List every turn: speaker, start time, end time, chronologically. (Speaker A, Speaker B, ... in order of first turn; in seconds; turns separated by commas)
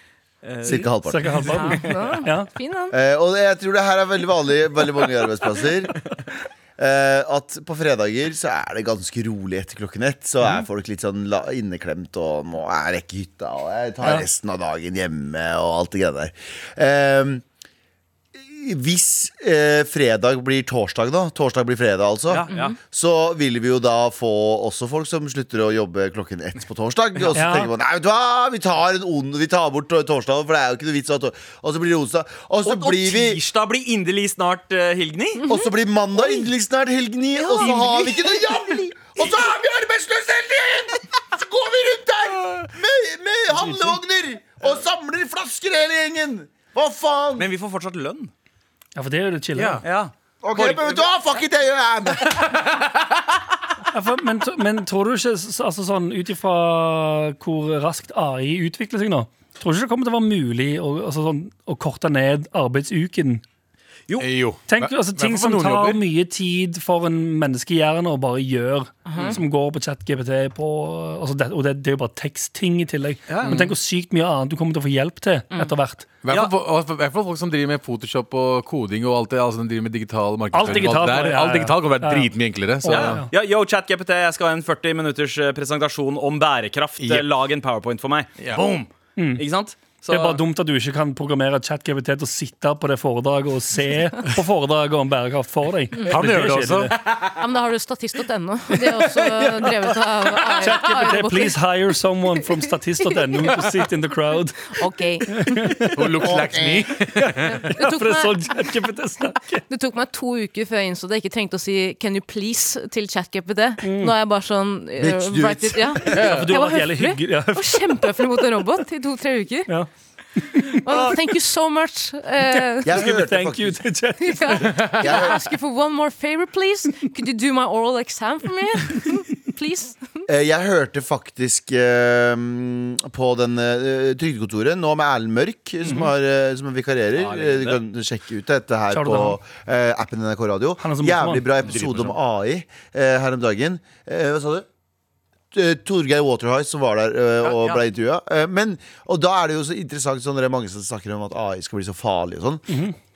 Speaker A: 0.5-0.8, Speaker B: 0.7-1.5, Speaker C: 0.7-2.5, Speaker D: 1.5-3.0, Speaker B: 2.9-6.0, Speaker B: 6.8-17.4, Speaker B: 18.4-33.4, Speaker A: 22.3-22.8, Speaker D: 22.5-22.8, Speaker C: 27.3-27.7, Speaker A: 32.6-35.4, Speaker B: 35.5-47.5, Speaker D: 37.6-37.9, Speaker A: 47.4-48.3, Speaker C: 49.0-49.8, Speaker E: 49.5-49.8, Speaker A: 49.8-51.0, Speaker B: 50.4-52.4, Speaker C: 53.9-63.4, Speaker E: 64.2-66.0, Speaker C: 64.7-76.2, Speaker D: 69.1-69.4, Speaker A: 73.3-73.6, Speaker E: 73.4-73.8, Speaker E: 76.2-83.2, Speaker C: 80.5-83.3, Speaker A: 80.7-80.9, Speaker A: 82.9-90.4, Speaker E: 87.0-87.3, Speaker E: 88.4-88.7, Speaker C: 89.2-89.4, Speaker C: 90.1-96.9, Speaker E: 96.0-97.0, Speaker D: 97.3-101.6, Speaker C: 98.7-104.8, Speaker D: 104.7-105.7, Speaker C: 105.3-106.2, Speaker E: 105.9-107.6, Speaker B: 106.2-107.0, Speaker C: 107.2-109.6, Speaker D: 107.5-108.4, Speaker D: 109.7-119.7, Speaker C: 113.8-114.1, Speaker B: 115.0-116.3, Speaker E: 116.1-116.6, Speaker C: 116.2-117.9, Speaker C: 119.7-121.1, Speaker D: 120.8-123.0, Speaker B: 122.8-123.8, Speaker C: 122.9-125.0, Speaker D: 124.2-130.0, Speaker B: 125.0-125.4, Speaker B: 130.3-144.7, Speaker A: 137.2-137.8, Speaker C: 138.9-139.4, Speaker C: 140.8-141.8, Speaker B: 145.5-152.7, Speaker A: 147.4-147.8, Speaker C: 152.7-152.9